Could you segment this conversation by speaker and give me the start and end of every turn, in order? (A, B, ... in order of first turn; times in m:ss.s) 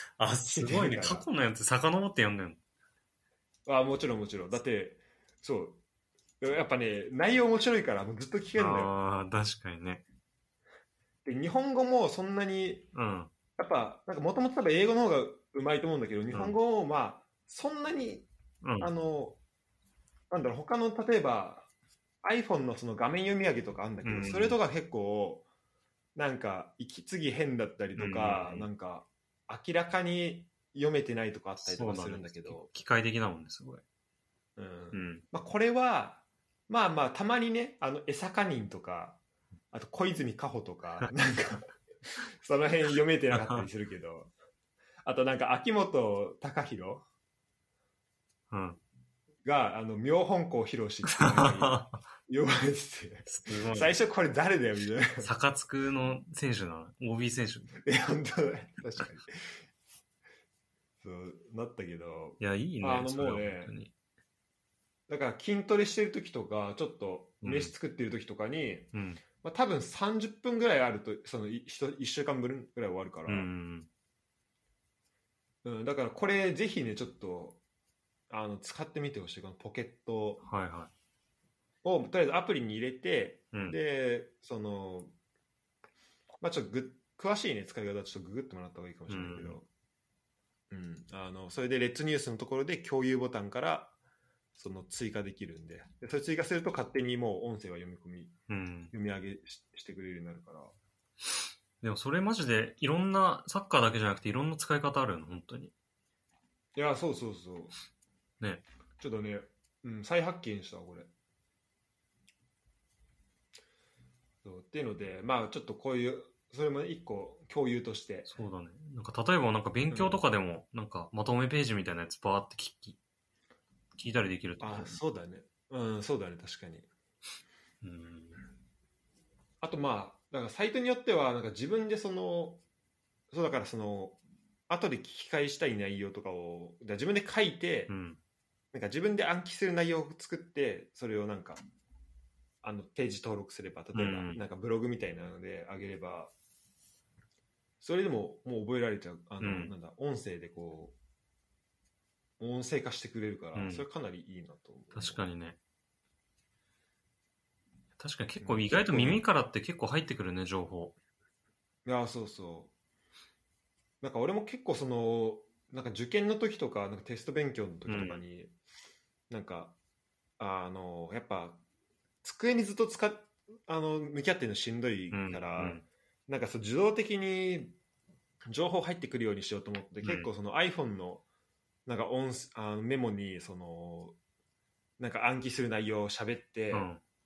0:00.2-0:02.6 A
0:00.5-0:01.3 B
0:03.7-0:05.8 B
0:06.4-0:08.9 B
0:08.6-0:10.0 A
0:11.2-0:12.9 B
0:12.9-0:13.3 A
0:13.6-0:18.3 B
0:18.6-0:18.9 A
0:18.8-0:19.4 B
0:20.3-0:21.7 B
0:22.2-0:25.5 B
0:24.0-0:24.6 A
0:26.2-0:32.7 B
0:28.0-0:28.7 A
0:31.6-0:33.8 A
0:34.6-0:39.2 B
0:34.9-0:35.2 A
0:39.7-0:44.3 B
0:43.3-0:43.6 A
0:45.0-0:47.0 B
0:48.5-0:48.8 A
0:49.4-0:55.3 B
0:51.1-0:52.0 A
0:53.3-0:54.0 A
0:55.2-0:57.8 A
0:57.8-0:59.6 B
1:01.0-1:03.7 B
1:02.4-1:03.9 A
1:05.1-1:13.5 B
1:07.4-1:07.7 A
1:08.9-1:09.2 A
1:13.3-1:13.9 A
1:15.6-1:17.6 B
1:18.3-1:20.4 B
1:20.4-1:20.9 A
1:21.8-1:25.1 B
1:23.5-1:23.8 A
1:26.4-1:29.7 B
1:29.1-1:29.6 A
1:30.7-1:33.9 B
1:34.6-1:38.3 B
1:38.5-1:38.9 A
1:38.9-1:40.8 B
1:41.8-1:45.7 A
1:46.8-1:47.7 B
1:49.0-1:51.1 B
1:54.4-1:58.3 B
1:58.3-2:03.0 A
1:59.9-2:00.2 B
2:04.0-2:05.0 A
2:04.6-2:06.9 B
2:07.8-2:08.5 A
2:09.6-2:12.6 B
2:13.3-2:17.9 B
2:17.9-2:18.2 A
2:18.7-2:21.6 B
2:22.6-2:26.3 B
2:23.9-2:24.4 A
2:27.8-2:31.0 B
2:29.4-2:29.7 A
2:32.4-2:35.2 B
2:33.6-2:33.9 A
2:34.9-2:35.6 A
2:38.0-2:41.0 A
2:38.4-2:39.2 B
2:41.8-2:42.7 B
2:44.0-2:48.5 B
2:47.9-2:48.2 A
2:49.3-2:49.8 B
2:50.4-2:51.6 B
2:52.2-2:57.8 B
2:55.1-2:55.8 A
2:58.5-3:01.2 B
3:00.0-3:00.3 A
3:01.9-3:04.2 B
3:05.0-3:06.9 B
3:06.7-3:07.0 A